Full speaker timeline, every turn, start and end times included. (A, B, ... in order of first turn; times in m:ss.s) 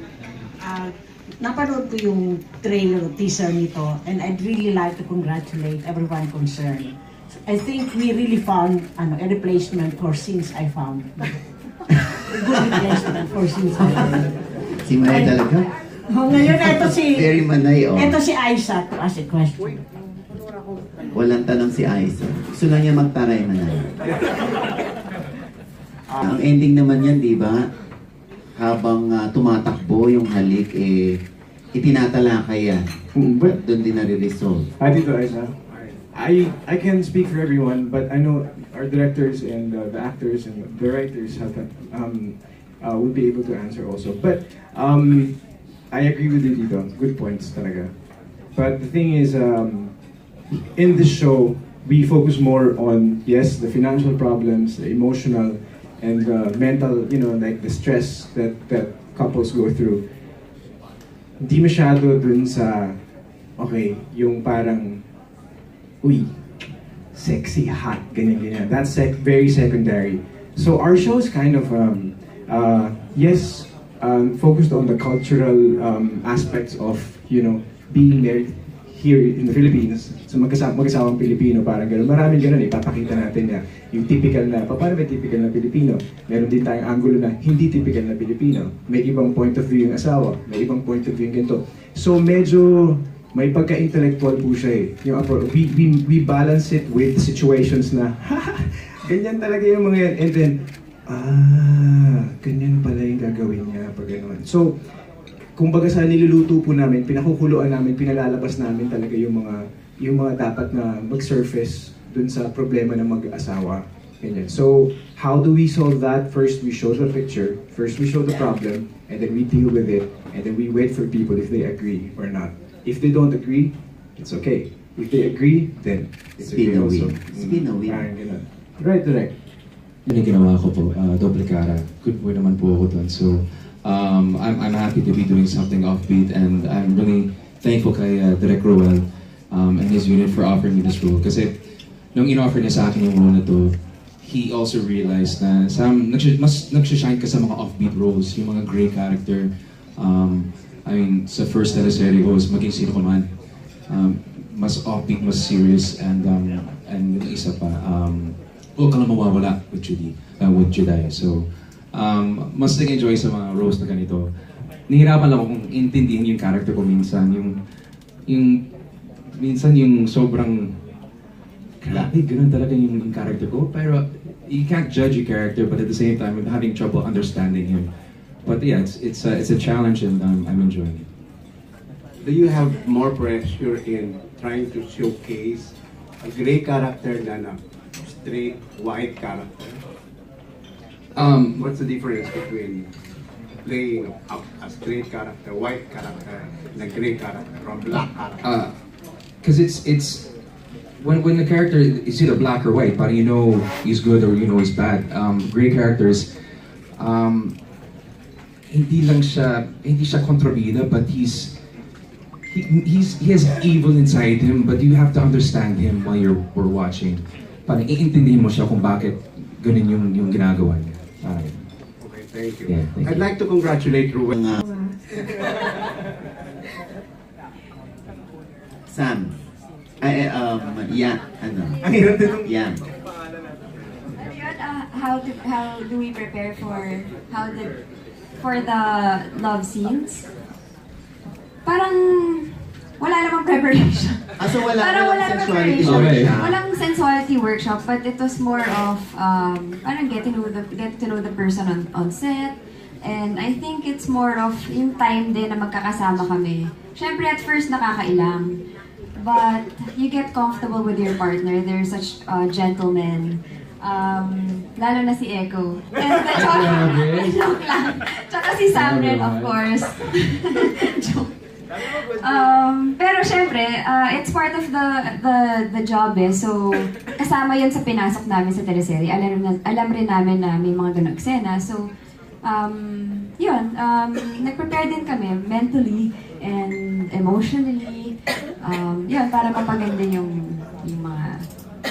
0:00.6-0:11.5 A
0:12.2-0:14.4 A
0:14.8-0:15.7 B
0:15.0-0:15.4 A
0:16.1-0:19.8 A
0:16.4-0:18.2 B
0:21.1-0:23.9 B
0:26.2-0:27.7 B
0:28.6-0:31.2 B
0:31.7-0:34.7 B
0:33.1-0:33.6 C
0:34.8-1:00.3 C
1:01.4-1:05.1 C
1:06.0-1:44.9 C
1:45.5-2:09.4 C
2:06.4-2:08.1 B
2:10.1-2:44.3 D
2:44.9-2:47.6 D
2:48.2-2:48.7 D
2:49.3-2:50.9 D
2:51.8-2:57.9 D
2:58.4-3:01.1 D
3:02.2-3:05.6 E
3:06.2-3:07.5 E
3:08.2-3:09.8 E
3:11.1-3:11.6 D
3:11.6-3:12.8 E
3:13.6-3:18.4 E
3:18.4-3:20.4 D
3:21.0-3:26.3 D
3:27.0-3:27.6 D
3:28.7-3:31.6 D
3:32.5-3:41.7 D
3:42.0-3:44.3 E
3:42.7-3:43.2 D
3:44.3-3:44.6 B
3:48.9-3:49.3 B
3:50.0-3:52.8 B
3:51.8-3:52.5 C
3:54.2-3:57.8 F
3:58.4-4:00.3 F
4:01.6-4:18.6 F
4:04.4-4:06.6 B
4:05.8-4:06.5 D
4:19.2-4:41.9 F
4:26.4-4:27.1 D
4:28.8-4:29.5 D
4:42.4-4:51.6 F